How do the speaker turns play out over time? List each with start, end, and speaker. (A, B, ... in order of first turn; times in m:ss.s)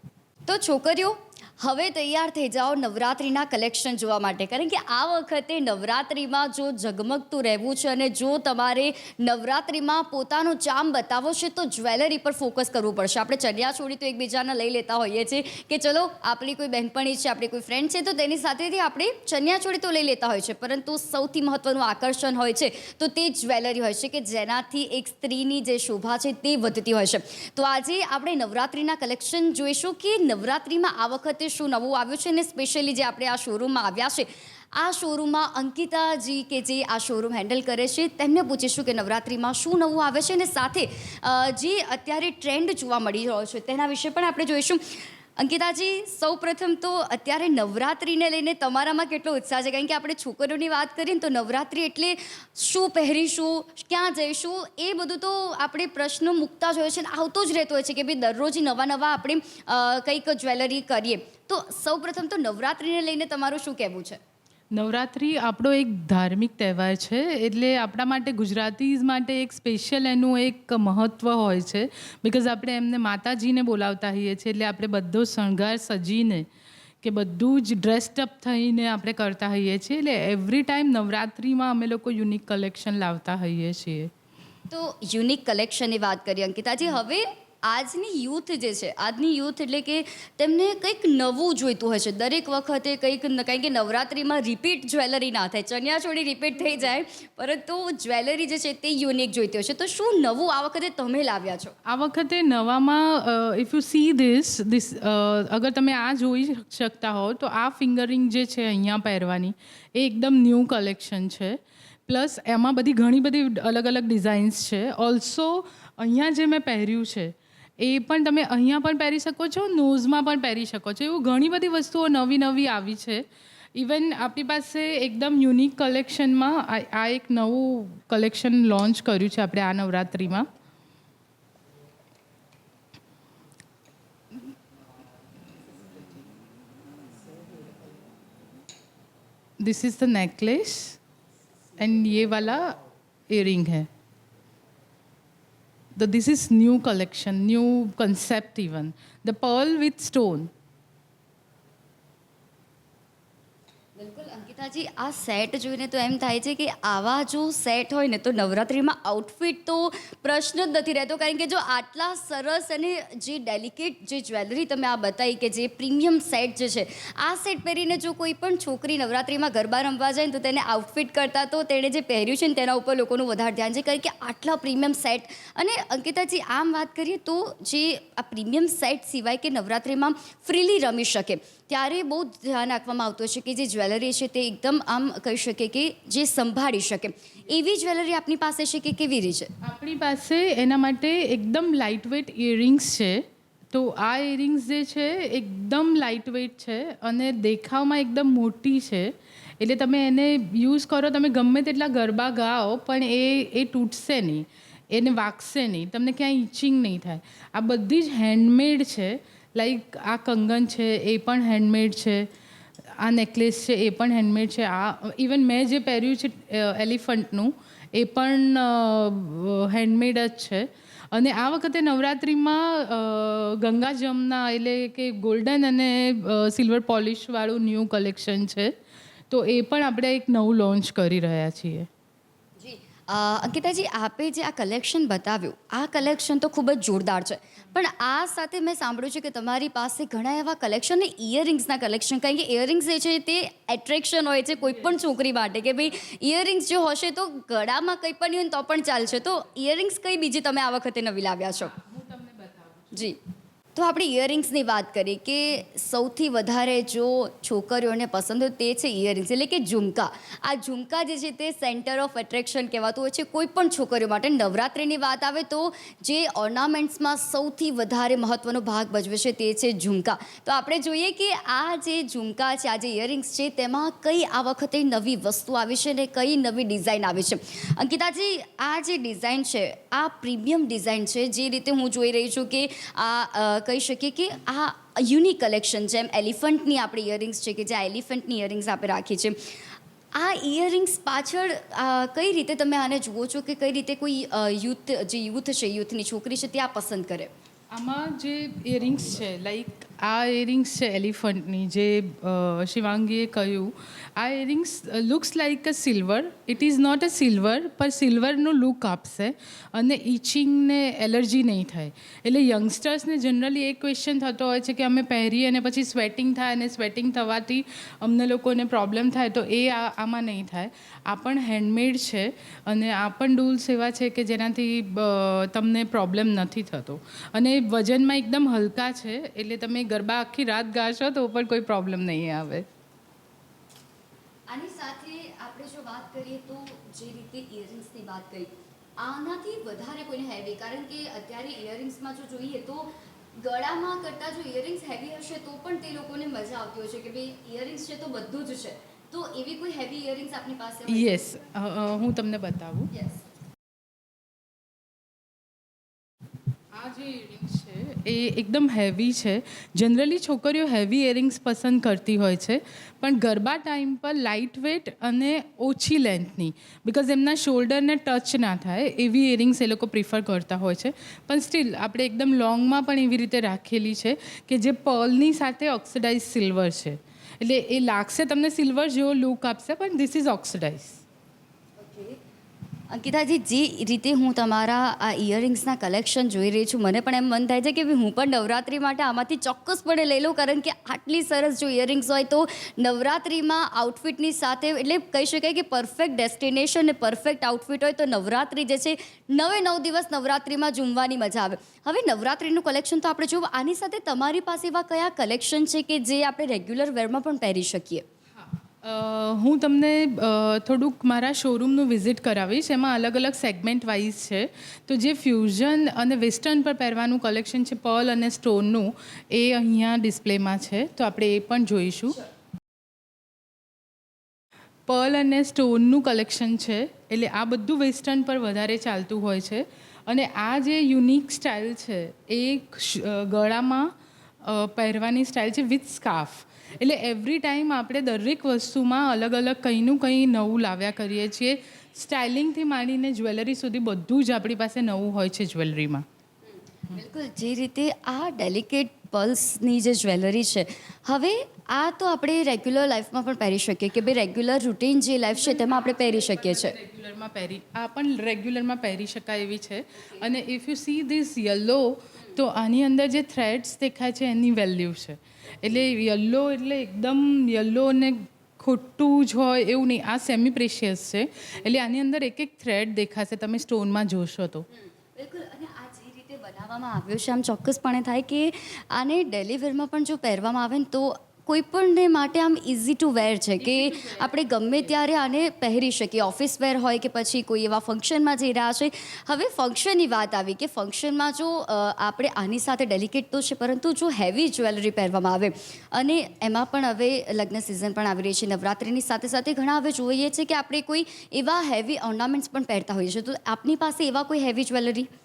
0:00.4-1:04.2 A
1:04.7-1:16.4 B
1:17.0-1:24.1 B
1:24.7-1:41.7 A
1:41.8-2:10.5 B
2:19.6-2:21.0 B
2:21.8-2:22.8 B
2:23.3-2:23.9 B
2:26.0-2:30.5 B
2:34.0-3:09.5 A
3:09.6-3:32.3 B
3:33.0-3:48.7 B
3:49.3-3:51.9 B
3:52.6-4:11.7 A
4:11.6-4:13.0 B
4:12.9-4:13.2 A
4:13.8-4:49.4 A
4:50.1-4:57.3 A
4:57.7-5:32.7 B
5:34.5-5:51.3 A
5:50.9-5:52.9 B
5:52.9-5:53.2 A
5:56.7-6:21.0 B
6:21.8-6:22.2 A
6:22.9-6:48.0 A
6:48.3-7:02.2 B
7:04.9-7:13.9 B
7:14.4-7:26.0 B
7:26.9-7:36.8 A
7:36.2-7:54.6 B
7:55.1-8:25.1 A
8:03.6-8:04.3 B